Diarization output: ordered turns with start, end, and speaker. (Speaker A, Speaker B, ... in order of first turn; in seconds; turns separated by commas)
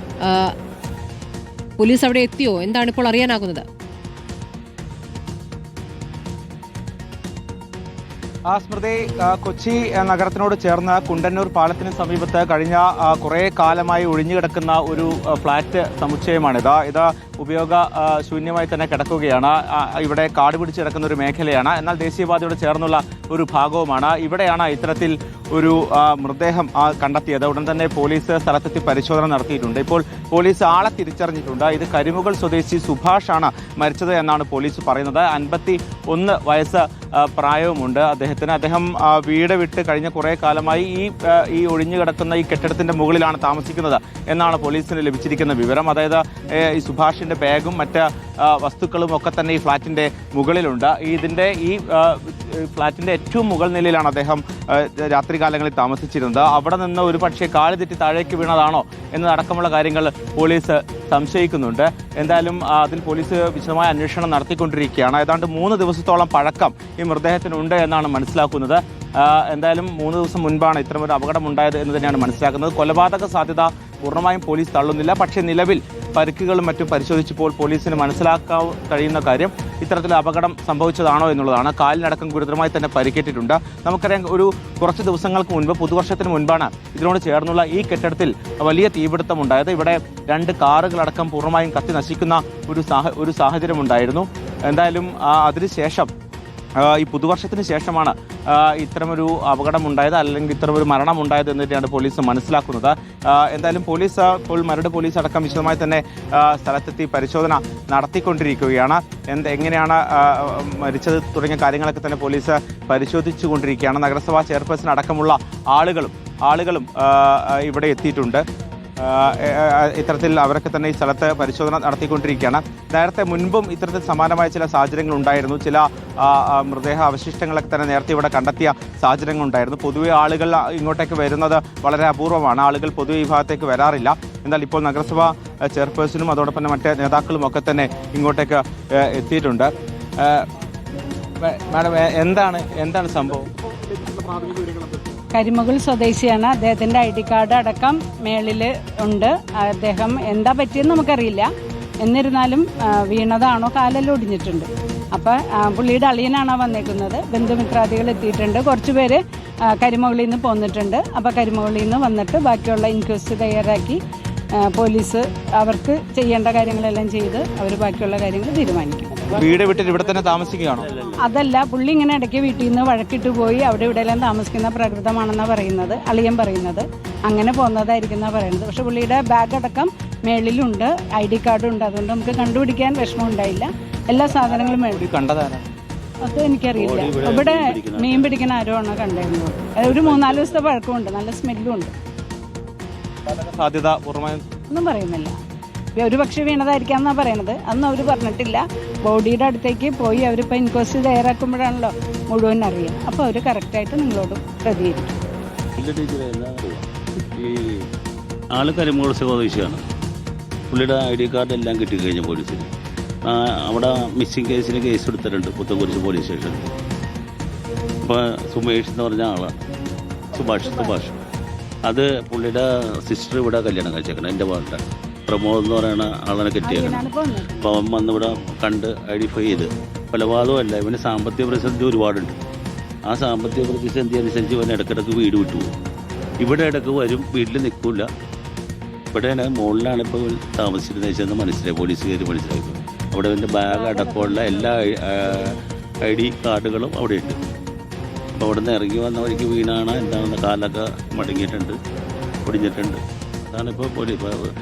Speaker A: 0.2-0.5, Speaker A: 1.8-3.6, Speaker B: 8.5-96.1, Speaker B: 96.8-118.4, Speaker B: 119.0-140.5, Speaker B: 141.4-143.5, Speaker B: 144.1-144.7, Speaker C: 145.3-151.5, Speaker C: 152.0-159.2, Speaker C: 159.8-164.0, Speaker C: 164.7-169.3, Speaker B: 169.3-171.1, Speaker C: 171.1-185.0, Speaker B: 184.8-185.7, Speaker C: 186.3-191.9, Speaker D: 186.8-188.4, Speaker B: 193.3-194.4, Speaker C: 194.7-195.3, Speaker C: 196.0-205.2, Speaker D: 205.8-207.6, Speaker D: 208.6-209.8, Speaker D: 210.7-212.7, Speaker D: 213.3-216.7, Speaker D: 218.1-219.6, Speaker D: 220.3-221.2, Speaker D: 221.9-232.4, Speaker C: 226.6-227.8, Speaker D: 233.1-235.8, Speaker D: 236.4-238.1, Speaker D: 239.1-247.4, Speaker C: 243.6-244.8, Speaker D: 248.4-251.8, Speaker D: 252.4-254.3